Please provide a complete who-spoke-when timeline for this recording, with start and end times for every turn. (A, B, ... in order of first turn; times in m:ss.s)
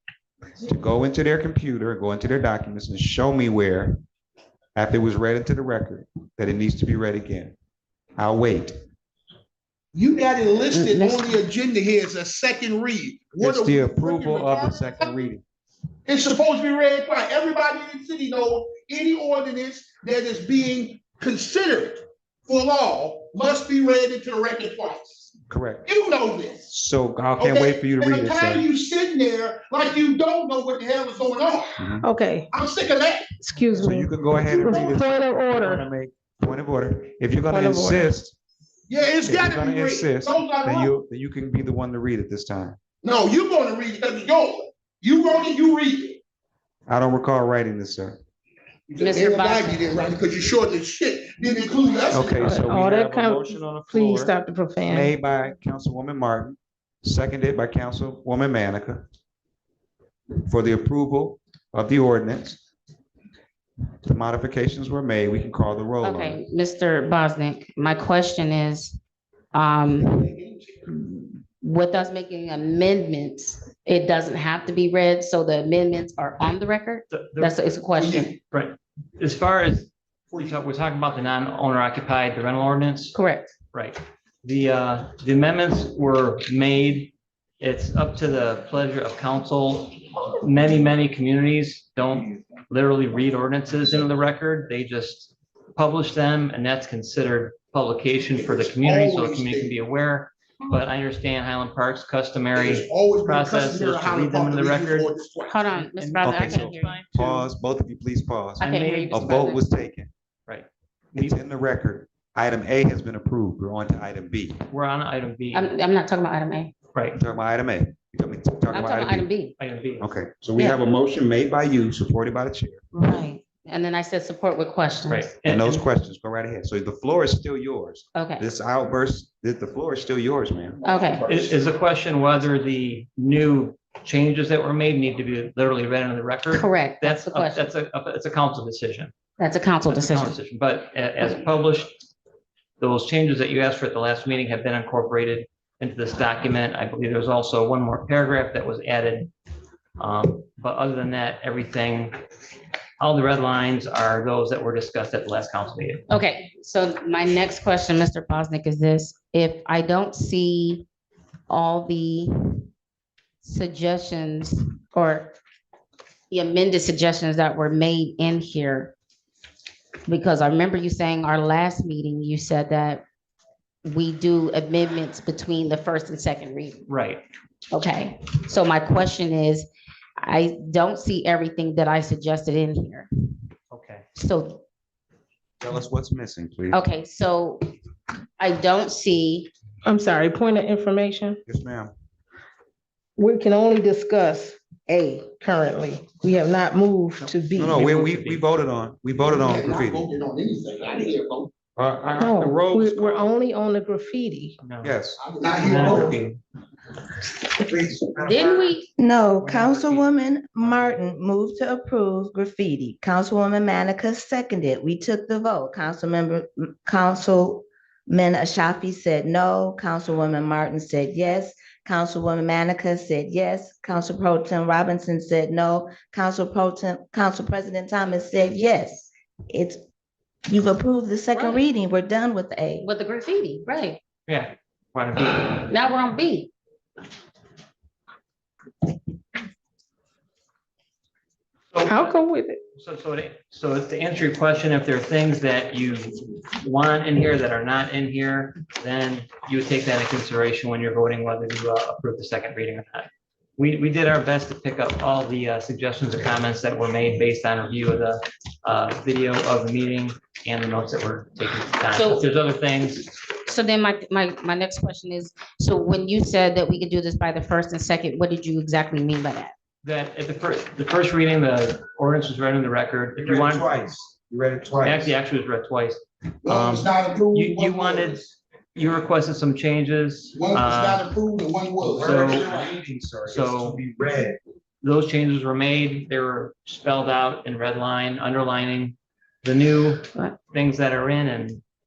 0:00.6-0:04.0 A
0:04.8-0:07.6 A
0:08.2-0:08.8 A
0:09.9-0:15.3 B
0:10.7-0:11.4 C
0:13.4-0:15.4 A
0:16.1-0:25.3 B
0:25.5-0:25.9 A
0:25.9-0:26.7 B
0:26.7-0:28.6 A
0:27.4-0:31.8 B
0:31.8-0:32.1 A
0:32.0-0:32.5 D
0:32.5-0:33.3 B
0:33.4-0:35.8 D
0:33.8-0:38.4 A
0:37.5-0:38.2 D
0:38.9-0:40.9 B
0:39.2-0:42.8 A
0:43.0-0:46.2 B
0:46.9-0:48.2 A
0:48.9-0:52.4 B
0:49.0-0:50.1 C
0:52.1-0:54.3 A
0:52.4-0:55.1 D
0:52.5-0:54.3 E
0:54.9-0:59.1 A
1:00.4-1:02.6 A
1:04.0-1:06.4 A
1:06.0-1:09.0 C
1:09.5-1:10.4 C
1:10.0-1:10.9 B
1:11.6-1:18.3 C
1:17.1-1:17.6 E
1:18.0-1:18.4 B
1:18.5-1:23.2 E
1:23.1-1:23.5 C
1:23.7-1:45.1 E
1:38.3-1:39.8 B
1:42.6-1:45.8 B
1:45.5-1:47.0 C
1:45.8-1:47.5 E
1:46.2-1:50.1 A
1:48.6-1:49.7 C
1:48.6-1:49.2 E
1:50.5-1:51.4 E
1:51.2-1:54.6 A
1:54.7-1:55.7 E
1:55.5-1:56.7 C
1:56.9-1:57.2 E
1:57.2-1:59.3 A
1:58.7-1:59.6 C
1:59.6-2:00.1 E
2:00.0-2:02.8 A
2:03.0-2:05.3 C
2:05.1-2:05.8 E
2:05.5-2:10.8 A
2:08.2-2:08.5 C
2:10.8-2:11.5 B
2:10.8-2:11.3 C
2:11.3-2:19.1 E
2:16.5-2:17.7 C
2:19.4-2:20.4 C
2:19.8-2:22.0 E
2:22.8-2:29.3 E
2:30.0-2:32.2 E
2:33.0-2:36.1 E
2:36.1-2:40.9 C
2:41.5-2:42.7 C
2:43.4-2:45.4 C
2:46.3-2:48.9 C
2:50.1-2:53.0 C
2:53.8-2:56.9 C
2:56.9-2:57.2 E
2:57.7-2:59.7 C
3:00.2-3:03.1 C
3:03.7-3:04.1 E
3:04.2-3:04.6 C
3:05.6-3:06.8 A
3:06.7-3:07.7 C
3:08.4-3:09.5 C
3:09.9-3:11.4 D
3:11.5-3:11.9 A
3:13.2-3:17.8 D
3:17.2-3:18.4 E
3:17.6-3:20.1 A
3:19.2-3:21.5 B
3:21.8-3:23.4 A
3:22.2-3:24.6 D
3:24.6-3:25.0 E
3:24.8-3:26.2 A
3:25.2-3:26.2 B
3:25.5-3:26.4 E
3:27.5-3:28.7 A
3:28.2-3:28.9 C
3:29.0-3:49.8 F
3:29.4-3:30.1 E
3:30.6-3:30.9 E
3:50.5-3:52.9 F
3:51.3-3:51.6 C
3:52.8-3:54.0 C
3:54.3-3:55.7 E
3:55.5-3:56.5 C
4:01.7-4:02.2 E
4:01.8-4:02.6 D
4:02.8-4:23.1 E
4:21.9-4:22.3 C
4:23.4-4:29.5 C
4:29.8-4:33.8 E
4:33.2-4:35.1 A
4:34.8-4:41.1 E
4:36.4-4:38.3 B
4:40.3-4:42.7 B
4:41.8-4:44.4 A
4:42.0-4:42.5 E
4:43.3-4:43.8 E
4:44.8-4:51.6 E